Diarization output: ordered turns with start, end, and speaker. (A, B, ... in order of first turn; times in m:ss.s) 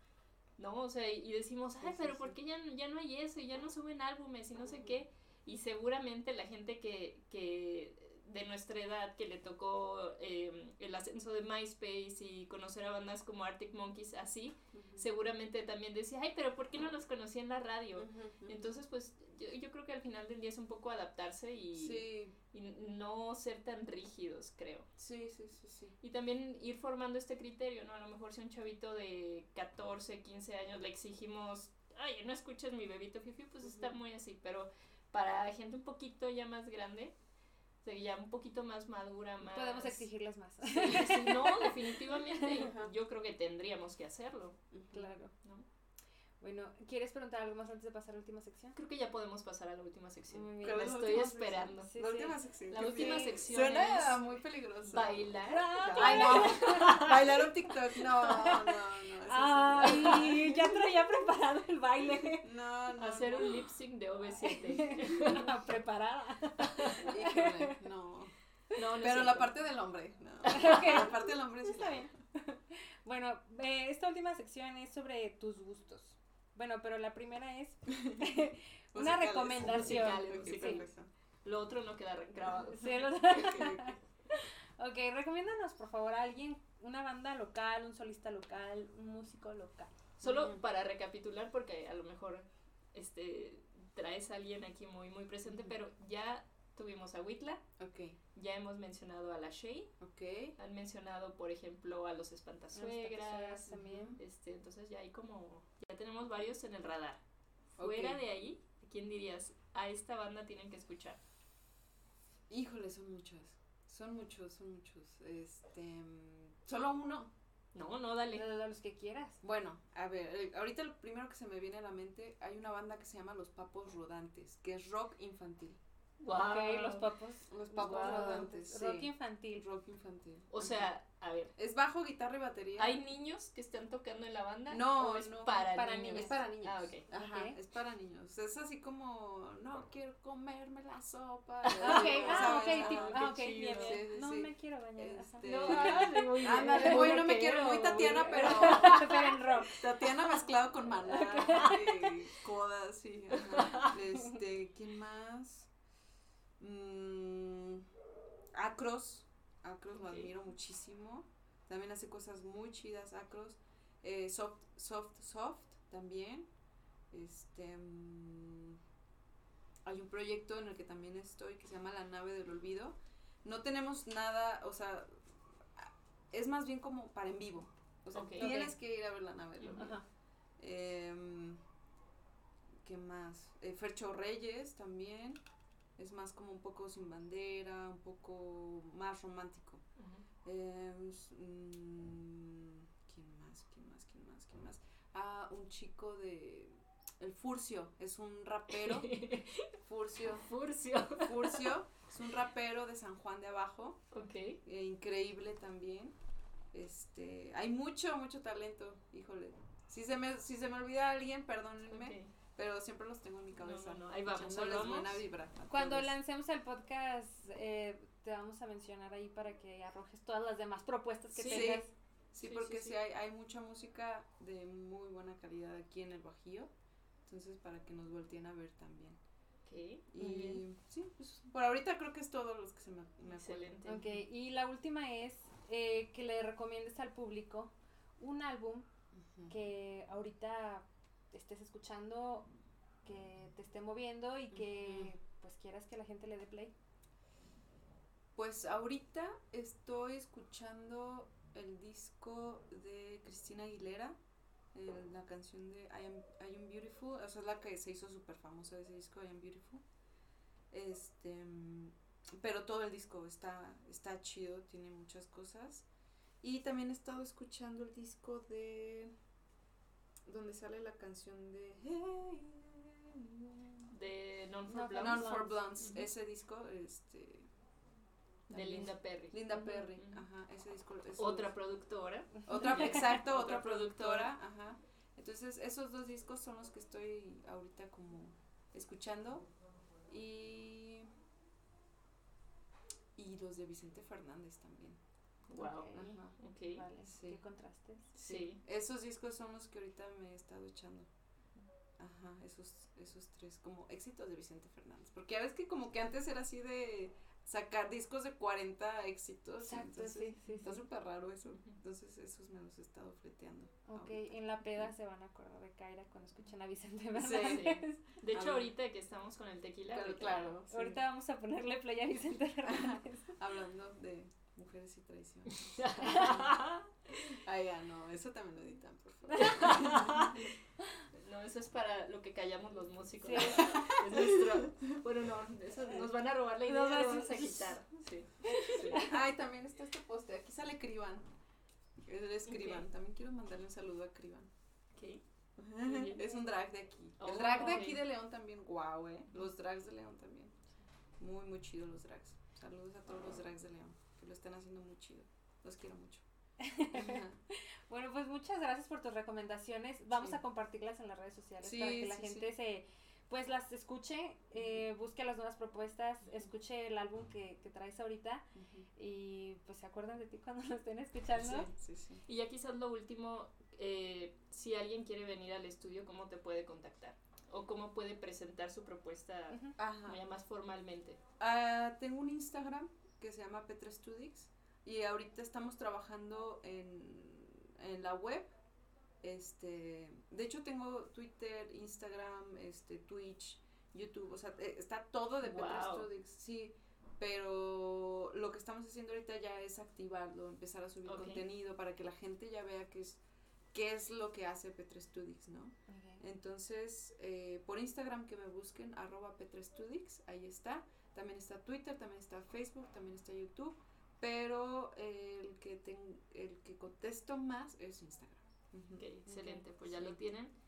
0:00.6-0:24.9 A
0:01.8-0:02.4 B
0:04.7-0:05.0 B
0:14.7-0:15.1 B
0:18.0-0:18.7 B
0:21.7-0:22.3 B
0:25.0-0:26.0 B
0:26.0-0:37.2 A
0:33.6-0:34.0 B
0:37.8-0:40.0 A
0:39.4-0:42.7 C
0:40.6-0:44.6 A
0:42.6-0:42.9 B
0:44.7-0:45.1 B
0:44.9-0:45.3 C
0:46.4-0:48.8 C
0:48.7-0:51.9 A
0:50.3-0:53.4 C
0:50.6-0:55.3 B
0:52.7-0:54.2 A
0:54.8-0:57.1 A
0:55.5-0:57.4 C
0:55.9-1:00.8 B
0:58.0-1:02.5 C
1:02.4-1:03.6 B
1:03.0-1:05.6 A
1:04.3-1:07.9 C
1:06.6-1:07.1 A
1:07.0-1:08.3 B
1:08.7-1:09.5 A
1:08.9-1:12.1 B
1:10.4-1:10.8 A
1:10.5-1:20.8 C
1:17.9-1:18.4 B
1:18.9-1:21.1 B
1:19.6-1:20.9 A
1:21.4-1:23.1 A
1:22.7-1:29.9 C
1:23.3-1:24.0 B
1:30.2-1:37.6 A
1:30.2-1:30.6 B
1:35.4-1:35.7 B
1:37.8-1:38.2 B
1:38.3-1:39.9 A
1:40.0-1:40.6 B
1:40.6-1:47.2 A
1:42.7-1:44.2 C
1:43.7-1:44.2 B
1:47.8-1:48.2 B
1:47.8-1:51.2 A
1:52.5-1:57.3 B
1:57.7-1:58.4 A
1:58.3-1:59.4 C
1:59.4-2:05.8 B
2:06.2-2:07.1 A
2:06.3-2:09.6 C
2:07.5-2:10.9 B
2:07.8-2:08.5 A
2:10.5-2:11.5 A
2:11.6-2:13.0 B
2:12.8-2:17.0 A
2:14.7-2:35.7 B
2:15.5-2:16.4 C
2:17.1-2:17.6 C
2:21.6-2:24.0 A
2:21.8-2:29.8 C
2:25.4-2:29.7 A
2:31.0-2:32.3 C
2:33.5-2:33.9 A
2:36.6-2:37.9 B
2:38.5-2:46.5 B
2:40.0-2:40.3 A
2:47.1-2:48.8 B
2:49.8-2:55.2 B
2:55.7-3:00.0 B
2:58.1-2:58.6 A
2:58.4-2:58.7 C
2:59.6-2:59.9 A
2:59.7-3:00.0 C
3:00.6-3:01.6 B
3:02.8-3:05.4 B
3:06.0-3:09.8 B
3:10.0-3:10.2 A
3:10.4-3:19.1 B
3:18.7-3:19.7 A
3:19.7-3:20.5 B
3:20.3-3:21.7 A
3:21.2-3:24.0 B
3:24.1-3:24.6 A
3:24.6-3:26.2 B
3:26.7-3:36.1 B
3:31.9-3:32.3 A
3:33.6-3:35.2 A
3:35.7-3:41.9 C
3:41.3-3:41.8 A
3:41.5-3:46.7 B
3:42.4-3:43.0 A
3:47.3-3:49.2 B
3:49.6-3:50.6 A
3:50.1-3:54.2 B
3:53.3-3:54.0 A
3:53.9-3:58.9 C
3:59.2-3:59.5 B
3:59.5-4:02.5 C
4:03.0-4:06.7 C
4:04.5-4:05.1 B
4:08.4-4:14.2 B
4:14.7-4:19.8 B
4:20.7-4:25.9 B
4:26.4-4:29.1 B
4:30.3-4:33.9 B
4:33.9-4:36.1 A
4:34.7-4:35.6 C
4:34.9-4:37.5 B
4:38.5-4:41.5 B
4:38.5-4:40.2 A
4:39.5-4:39.8 C
4:41.2-4:44.3 A
4:42.4-4:43.0 C
4:42.4-4:49.4 B
4:50.1-4:51.1 B
4:53.2-4:55.0 B
4:55.5-4:56.9 A
4:55.6-4:58.1 C
4:55.9-4:56.4 B
4:57.0-4:57.4 B
4:58.1-5:01.1 B
4:58.2-4:58.6 A
5:02.0-5:14.9 B
5:09.6-5:10.8 C
5:11.5-5:11.8 A
5:13.9-5:18.2 C
5:17.1-5:17.7 B
5:17.4-5:20.6 A
5:18.3-5:18.7 B
5:19.9-5:21.0 B
5:20.7-5:23.3 C
5:22.6-5:26.6 B
5:25.5-5:27.4 A
5:27.3-5:30.5 B
5:29.3-5:30.6 A
5:31.1-5:39.0 A
5:33.2-5:33.7 C
5:33.5-5:34.7 B
5:36.6-5:37.7 C
5:38.5-5:39.1 C
5:38.7-5:41.3 B
5:42.0-5:44.5 B
5:42.5-5:42.8 A
5:44.9-5:45.2 A
5:45.6-5:50.6 B
5:45.8-5:46.4 A
5:47.2-5:48.0 A
5:47.5-5:47.8 C
5:51.2-5:56.2 B
5:56.6-6:08.4 C
5:56.9-5:57.4 B
6:01.6-6:02.5 B
6:04.6-6:04.8 B
6:08.6-6:08.9 B
6:09.0-6:11.7 C
6:11.3-6:12.2 B
6:12.3-6:21.2 A
6:19.5-6:19.8 C
6:19.8-6:20.2 B
6:21.4-6:28.6 B
6:29.2-6:59.2 B
6:35.4-6:36.1 A
6:41.1-6:41.4 A
6:45.9-6:46.2 C
6:59.0-7:00.5 A
6:59.3-6:59.6 C
6:59.8-7:00.2 B